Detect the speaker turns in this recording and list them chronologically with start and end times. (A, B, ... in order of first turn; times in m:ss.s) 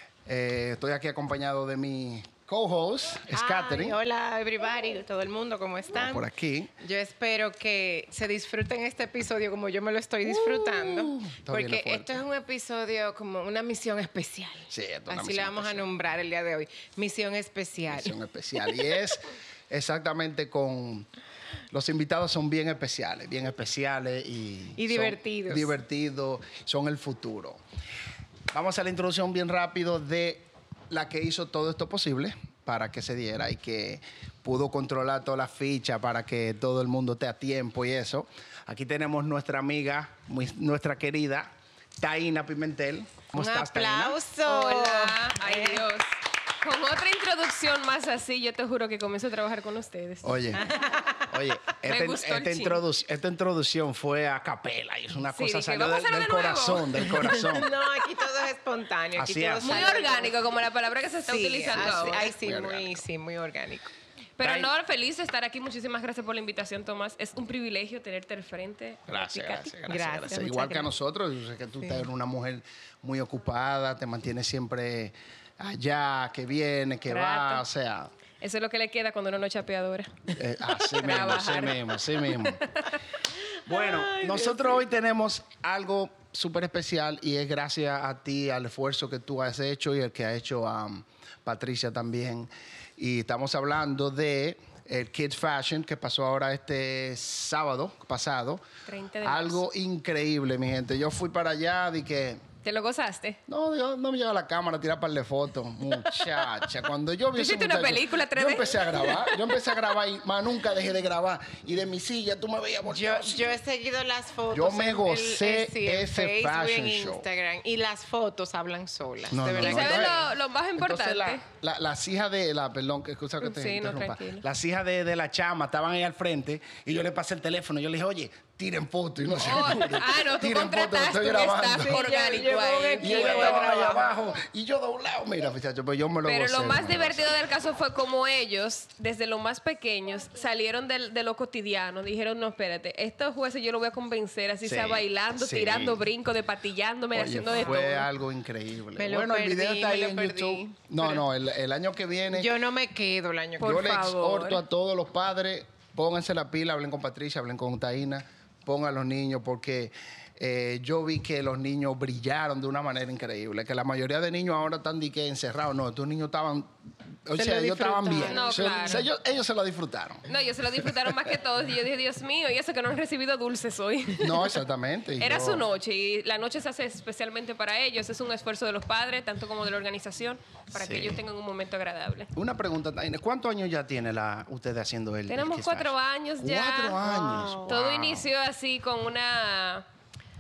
0:00.3-0:04.0 A
0:03.3-0:06.3 B
0:05.9-0:06.7 A
0:06.8-0:18.9 B
0:10.2-0:12.2 A
0:14.7-0:15.9 A
0:17.9-0:21.1 A
0:21.7-0:27.6 A
0:24.8-0:25.7 B
0:28.5-0:44.2 A
0:43.3-0:45.8 B
0:44.5-0:46.1 C
0:46.6-0:50.4 C
0:50.2-0:50.6 A
0:50.6-0:51.3 B
0:51.3-0:57.7 A
0:51.9-0:52.8 C
0:55.3-0:57.1 C
0:57.5-1:00.4 B
0:59.2-0:59.9 A
0:59.6-1:02.2 C
1:01.3-1:03.9 B
1:01.7-1:03.0 A
1:04.4-1:09.8 C
1:04.4-1:04.7 A
1:09.1-1:18.1 A
1:09.9-1:10.9 B
1:17.1-1:17.6 C
1:18.4-1:23.0 C
1:20.3-1:22.6 A
1:23.7-1:38.6 A
1:23.7-1:24.7 B
1:38.9-1:39.6 C
1:39.2-1:42.4 A
1:42.6-1:43.4 C
1:43.5-1:53.5 A
1:47.3-1:49.4 C
1:52.9-2:00.2 B
1:54.5-1:57.3 A
1:59.3-2:12.4 A
1:59.6-2:01.4 C
2:03.4-2:04.4 C
2:09.4-2:13.9 C
2:11.8-2:14.1 B
2:13.0-2:17.3 A
2:16.2-2:28.1 C
2:24.6-2:26.0 A
2:27.1-2:32.5 A
2:29.0-2:31.2 B
2:32.3-2:33.9 B
2:33.6-2:46.7 A
2:33.6-2:34.6 C
2:47.2-2:51.3 A
2:47.4-2:49.0 B
2:48.3-2:49.0 C
2:50.3-2:54.6 C
2:54.2-2:55.7 A
2:55.2-3:02.3 C
3:00.7-3:01.2 A
3:02.3-3:08.3 A
3:05.3-3:07.0 C
3:07.0-3:07.7 B
3:07.7-3:09.9 C